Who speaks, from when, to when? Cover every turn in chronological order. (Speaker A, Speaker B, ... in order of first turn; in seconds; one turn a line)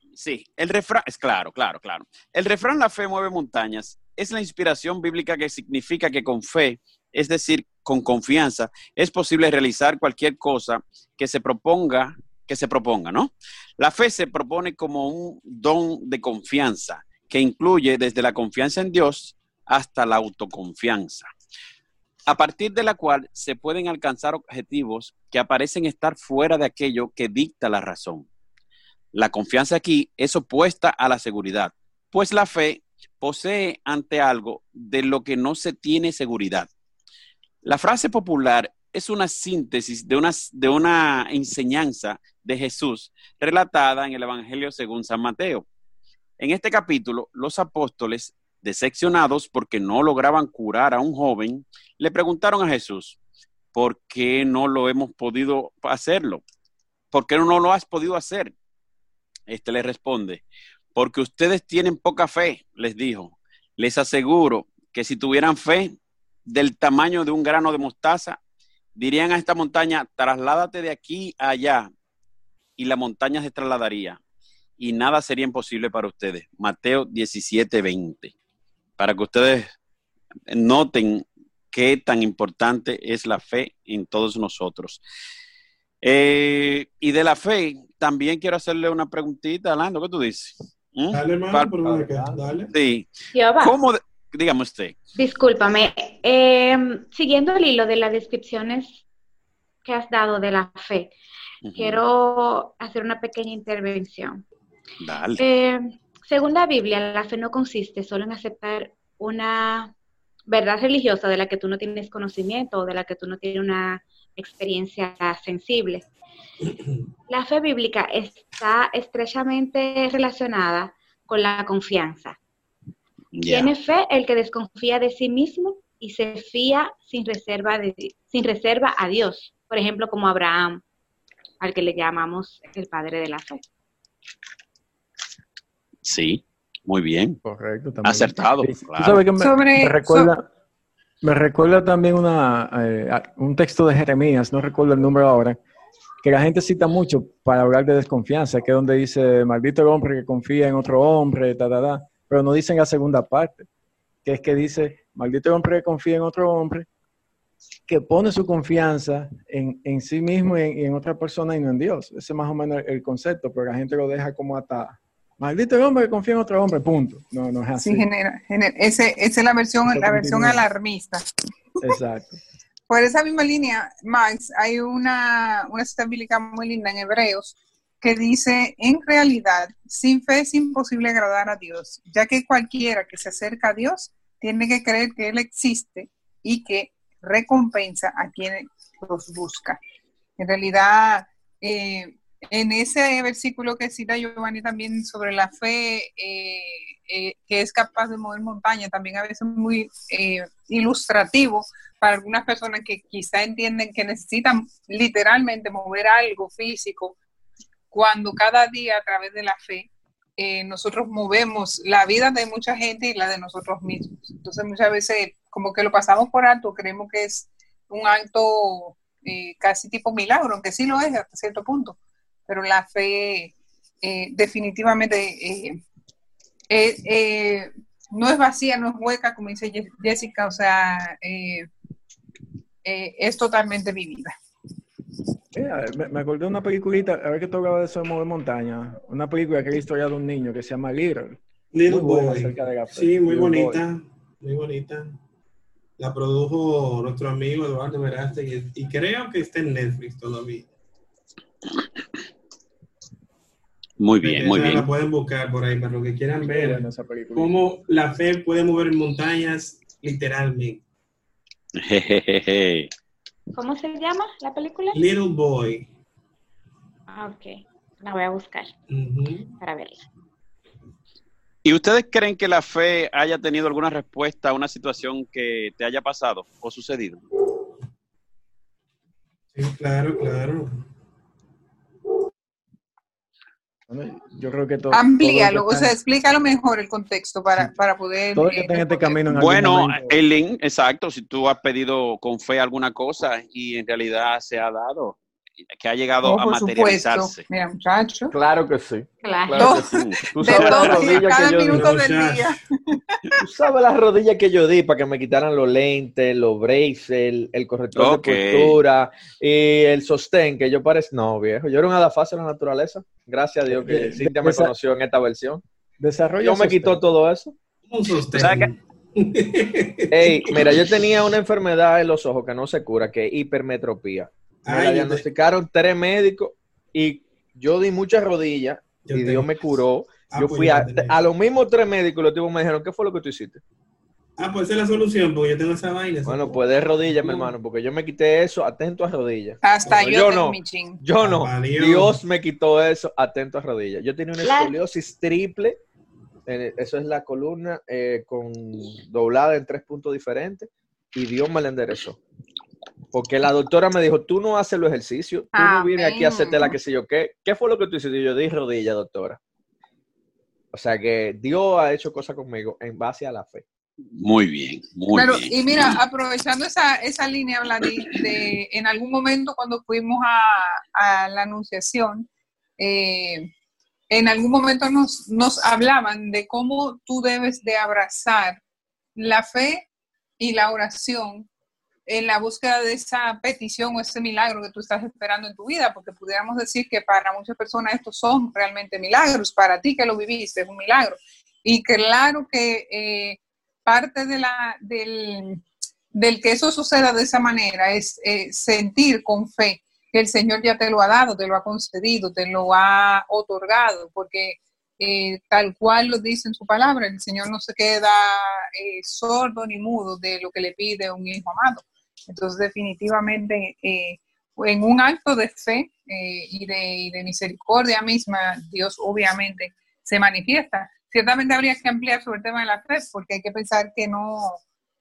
Speaker A: 0.1-21.3
Speaker A: 22.3-28.3
Speaker A: 29.1-36.7
Speaker A: 37.6-45.6
Speaker A: 46.4-53.1
Speaker A: 53.7-56.4
Speaker A: 57.1-58.5
Speaker A: 59.5-60.4
Speaker A: 60.9-65.9
Speaker A: 66.5-68.4
Speaker A: 68.9-71.9
Speaker A: 72.8-74.2
Speaker A: 74.8-78.3
Speaker A: 79.0-79.7
Speaker A: 80.5-85.0
Speaker A: 86.0-91.7
Speaker B: 91.1-92.7
Speaker C: 91.8-92.5
Speaker A: 92.7-95.0
Speaker D: 93.3-93.8
Speaker D: 95.2-99.0
Speaker D: 99.8-101.1
Speaker A: 101.6-102.0
Speaker D: 101.8-104.4
Speaker A: 105.0-105.4
Speaker D: 105.4-109.9
Speaker D: 110.5-116.0
Speaker D: 117.3-122.4
Speaker A: 123.3-123.7
Speaker D: 123.5-130.8
Speaker D: 131.6-133.7
Speaker A: 136.0-137.4
Speaker C: 137.4-140.4
Speaker A: 138.0-139.2
Speaker E: 139.4-140.3
Speaker C: 141.2-145.6
Speaker C: 146.2-153.7
Speaker C: 154.2-156.9
Speaker C: 157.9-168.0
Speaker E: 167.8-171.2
Speaker C: 169.9-170.6
Speaker C: 171.8-172.4
Speaker E: 172.9-189.8
Speaker E: 190.4-207.2
Speaker E: 207.9-225.8
Speaker E: 226.7-231.7
Speaker E: 232.8-234.3
Speaker C: 235.5-243.8
Speaker B: 241.7-245.2
Speaker B: 246.0-250.7
Speaker A: 254.0-254.9
Speaker B: 254.2-260.8
Speaker C: 256.4-257.6
Speaker A: 261.8-262.9
Speaker D: 263.5-265.0
Speaker B: 264.9-265.9
Speaker D: 267.1-268.7
Speaker B: 268.9-269.6
Speaker D: 269.6-270.0
Speaker A: 271.6-277.2
Speaker B: 279.5-280.8
Speaker C: 283.9-285.9
Speaker E: 284.9-289.2
Speaker C: 288.3-290.2
Speaker A: 289.3-295.2
Speaker A: 295.8-297.4
Speaker E: 296.2-298.3
Speaker F: 298.3-301.9
Speaker D: 299.2-299.8
Speaker E: 299.6-303.4
Speaker A: 299.7-301.2
Speaker B: 301.5-302.6
Speaker F: 303.4-315.6
Speaker A: 307.9-308.8
Speaker C: 313.7-314.7
Speaker C: 316.0-317.0
Speaker F: 316.4-317.5
Speaker B: 317.9-320.6
Speaker A: 318.3-318.7
Speaker F: 320.1-333.6
Speaker B: 324.6-325.2
Speaker B: 329.1-329.5
Speaker B: 330.3-331.2
Speaker B: 334.4-337.5
Speaker F: 336.2-345.8
Speaker E: 339.6-341.0
Speaker B: 341.2-342.2
Speaker D: 344.4-344.7
Speaker F: 346.4-352.2
Speaker F: 353.1-359.4
Speaker E: 355.5-356.7
Speaker F: 360.7-363.6
Speaker A: 364.1-365.9
Speaker E: 365.1-373.5
Speaker E: 374.1-378.6
Speaker E: 379.1-379.9
Speaker E: 380.4-381.5
Speaker E: 382.1-395.6
Speaker E: 396.1-424.6